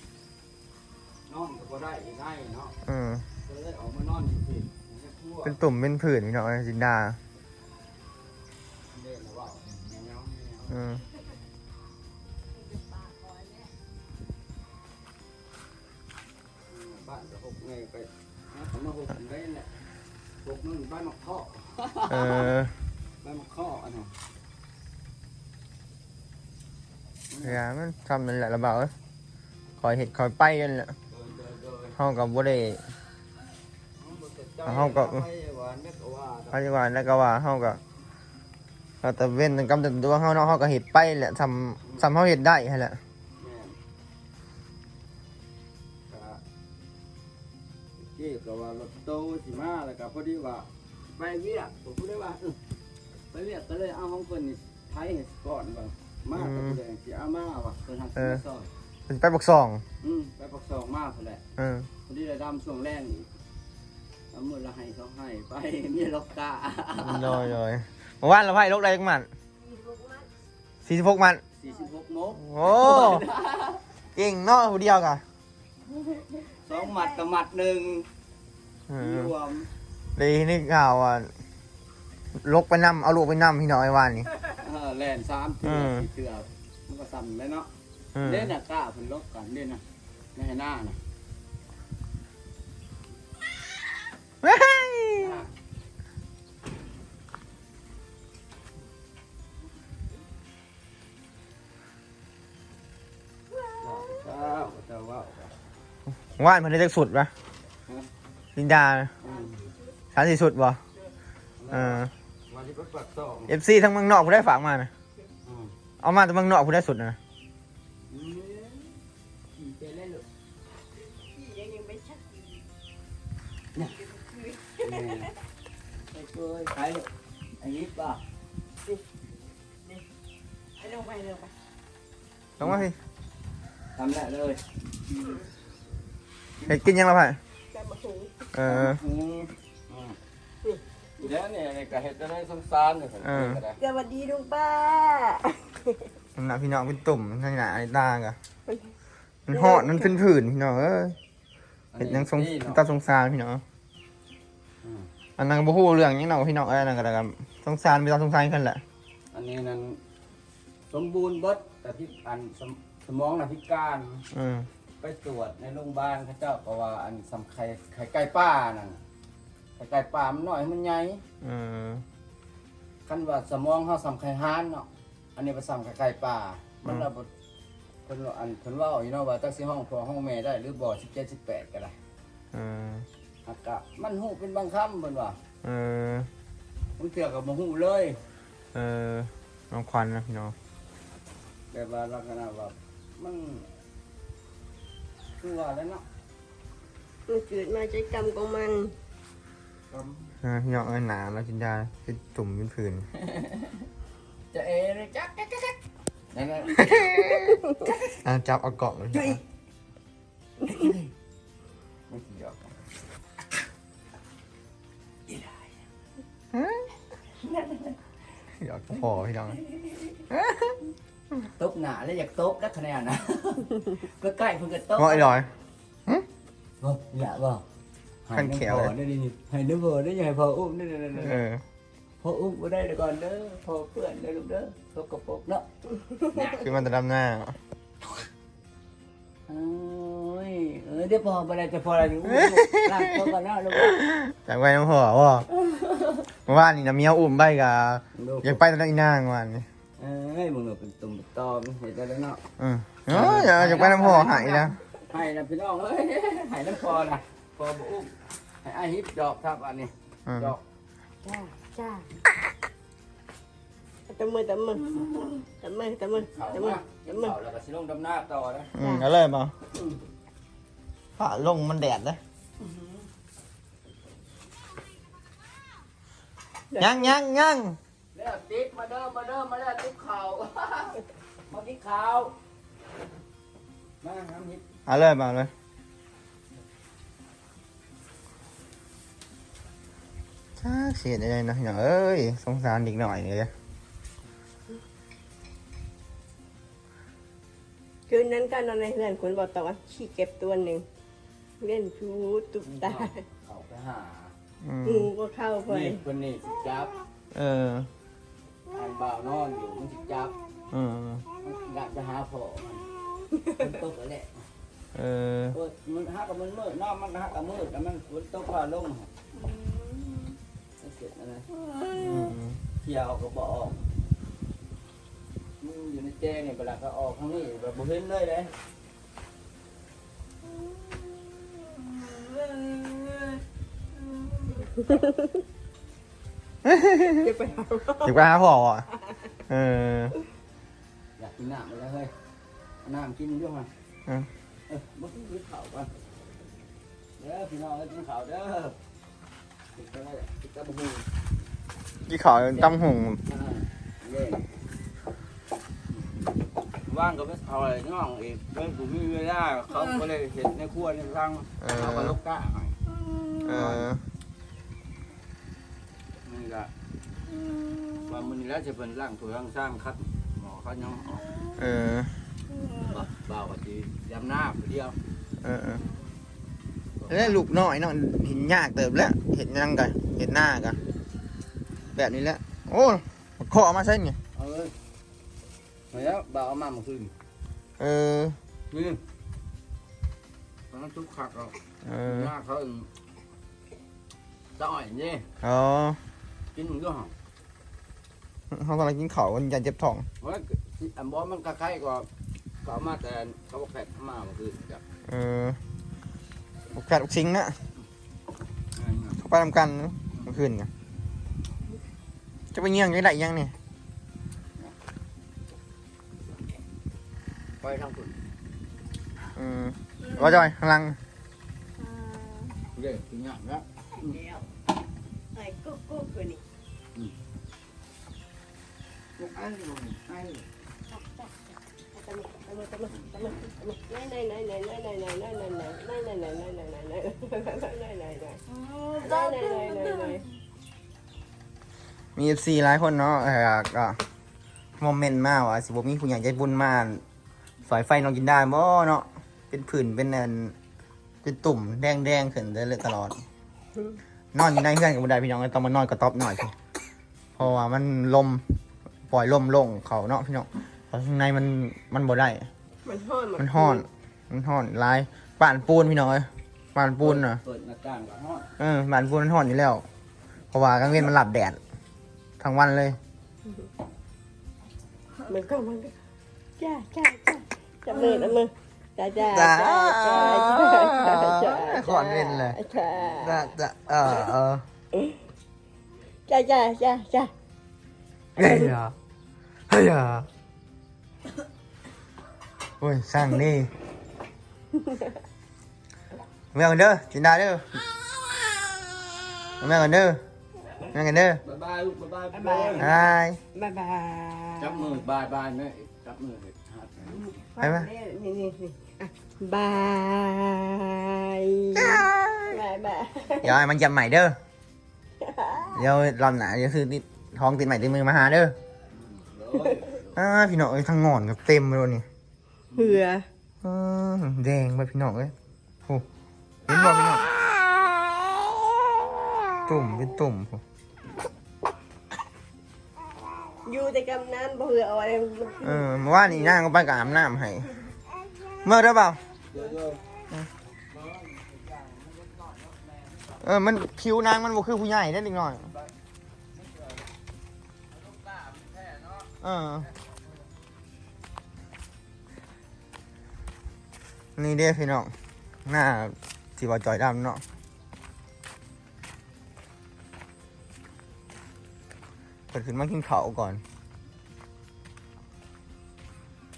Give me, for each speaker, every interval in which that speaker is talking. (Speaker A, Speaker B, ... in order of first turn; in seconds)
Speaker A: 1.3-2.8, 3.4-5.6, 8.9-10.8, 16.7-19.7, 20.4-22.5, 23.2-24.1, 27.3-27.6, 31.1-32.0, 34.0-36.6, 41.8-42.1, 43.4-43.8, 46.1-46.4, 48.0-52.6, 53.3-58.7, 60.0-61.4, 62.0-63.3, 64.3-67.5, 71.6-73.8, 75.9-78.1, 79.0-79.7, 84.4-89.8, 90.3-91.0, 95.2-95.5, 103.8-105.5, 109.2-109.7, 111.6-113.6, 115.5-115.7, 118.1-119.0, 119.5-120.2, 123.8-124.0, 124.8-125.3, 126.1-127.1, 127.6-128.2, 132.6-132.9, 133.9-134.6, 136.6-136.8, 138.7-140.2, 141.2-143.8, 151.9-152.8, 154.8-155.1, 159.3-160.0, 160.9-164.3, 165.0-169.0, 169.8-171.2, 173.1-177.3, 178.1-182.0, 183.5-185.4, 187.0-188.2, 191.7-193.7, 195.4-196.1, 199.9-200.4, 203.1-203.9, 204.5-205.8, 206.3-207.2, 207.8-208.1, 210.6-211.1, 212.1-212.8, 215.3-215.8, 217.3-218.0, 219.6-220.2, 221.6-225.4, 226.8-227.7, 228.3-231.4, 232.2-235.7, 236.3-236.7, 239.5-244.0, 245.6-246.2, 248.1-248.6, 250.0-252.4, 253.1-260.6, 265.0-265.4, 266.2-268.7, 269.7-270.0, 272.6-273.1, 278.1-282.4, 284.0-284.7, 302.6-304.4, 305.7-306.9, 308.7-310.4, 311.4-312.9, 313.5-314.4, 315.5-319.2, 320.8-321.6, 322.7-323.8, 325.6-328.5, 331.9-333.4, 334.1-334.7, 341.2-342.1, 342.8-343.7, 344.7-345.9, 347.2-348.8, 349.7-351.1, 352.5-354.5, 356.9-362.8, 363.6-363.9, 366.2-366.7, 368.0-371.4, 372.6-375.0, 377.0-377.4, 384.3-384.7, 385.9-387.1, 388.7-389.0, 390.7-392.9, 394.6-395.3, 396.5-397.1, 400.2-402.1, 402.6-404.8, 408.8-409.2, 417.6-418.2, 422.6-424.2, 429.2-430.5, 438.5-440.2, 467.0-468.5, 501.4-502.9, 504.6-507.2, 518.9-520.2, 522.7-523.0, 539.5-540.0, 540.6-543.5, 545.6-546.0, 546.5-547.1, 547.9-550.5
Speaker B: 2.9-3.3, 5.5-7.2, 10.7-11.0, 22.1-22.7, 27.4-28.9, 29.8-30.9, 32.0-32.8, 34.7-35.3, 36.5-37.8, 39.0-43.0, 56.4-56.8, 58.2-58.4, 59.1-59.8, 61.6-61.9, 67.0-69.3, 70.8-71.4, 72.4-73.2, 74.2-75.2, 78.9-79.3, 80.2-81.3, 82.3-84.3, 85.6-86.0, 88.2-88.5, 94.4-95.4, 106.4-107.3, 108.6-109.1, 110.1-110.8, 111.7-112.1, 113.5-114.9, 116.0-117.2, 132.6-132.9, 136.7-137.4, 138.5-139.0, 143.2-143.6, 146.4-148.4, 149.5-151.2, 152.0-153.6, 155.4-158.8, 164.3-164.7, 171.4-172.0, 182.5-183.1, 185.6-186.3, 188.7-190.6, 200.4-203.1, 206.8-207.6, 208.2-209.4, 216.5-216.9, 218.6-219.6, 220.3-220.8, 225.0-225.5, 228.3-228.9, 231.2-231.6, 236.4-237.6, 242.3-243.1, 243.8-245.5, 246.4-249.7, 252.6-254.8, 260.3-260.6, 268.8-269.5, 271.2-272.2, 276.8-277.8, 284.9-285.5, 290.6-293.5, 304.6-305.1, 307.3-307.9, 310.7-311.2, 314.9-315.6, 321.9-322.6, 336.6-337.3, 338.0-338.9, 339.5-340.1, 352.1-353.2, 361.6-362.1, 363.4-364.1, 371.6-372.2, 375.4-375.9, 377.1-380.8, 382.0-384.2, 387.8-388.4, 391.9-392.3, 395.4-396.0, 398.5-400.1, 405.1-405.6, 406.7-407.6, 409.2-410.7, 412.5-413.6, 419.4-421.0, 442.2-444.0, 444.8-447.0, 447.6-450.6, 451.2-453.2, 454.3-456.5, 457.4-458.4, 459.1-462.5, 463.4-467.4, 468.6-469.9, 470.5-471.6, 472.4-473.0, 479.2-484.6, 488.4-488.9, 489.7-490.3, 492.8-493.7, 496.5-497.8, 499.6-500.2, 500.9-501.4, 502.8-503.4, 507.6-507.9, 511.8-512.6, 513.4-514.4, 515.7-518.6, 520.2-522.1, 523.6-525.3, 526.7-527.3, 529.6-530.6, 535.6-537.7, 538.6-539.2, 543.4-545.7, 549.4-549.9, 554.4-555.1, 555.6-557.4, 562.5-563.6
Speaker C: 69.6-70.3, 121.2-122.6, 124.1-125.3, 130.8-131.5, 137.7-138.4, 143.8-146.1, 148.7-148.9, 149.5-150.1, 197.3-198.9, 207.4-207.7, 254.2-254.7, 261.2-262.2, 264.1-265.1, 265.6-267.3, 268.8-269.1, 276.7-277.2, 298.1-300.9, 301.6-303.2, 304.9-306.0, 319.6-320.0, 334.9-335.3, 337.0-338.2, 363.0-363.5, 420.1-420.3, 421.8-422.6, 424.0-424.5, 425.3-426.4, 430.9-438.4, 439.0-440.2, 462.9-463.9, 475.3-475.9, 476.6-483.5, 486.3-487.3, 488.4-488.8, 502.3-505.0, 507.0-513.6, 515.2-515.9, 522.8-523.3, 533.6-536.6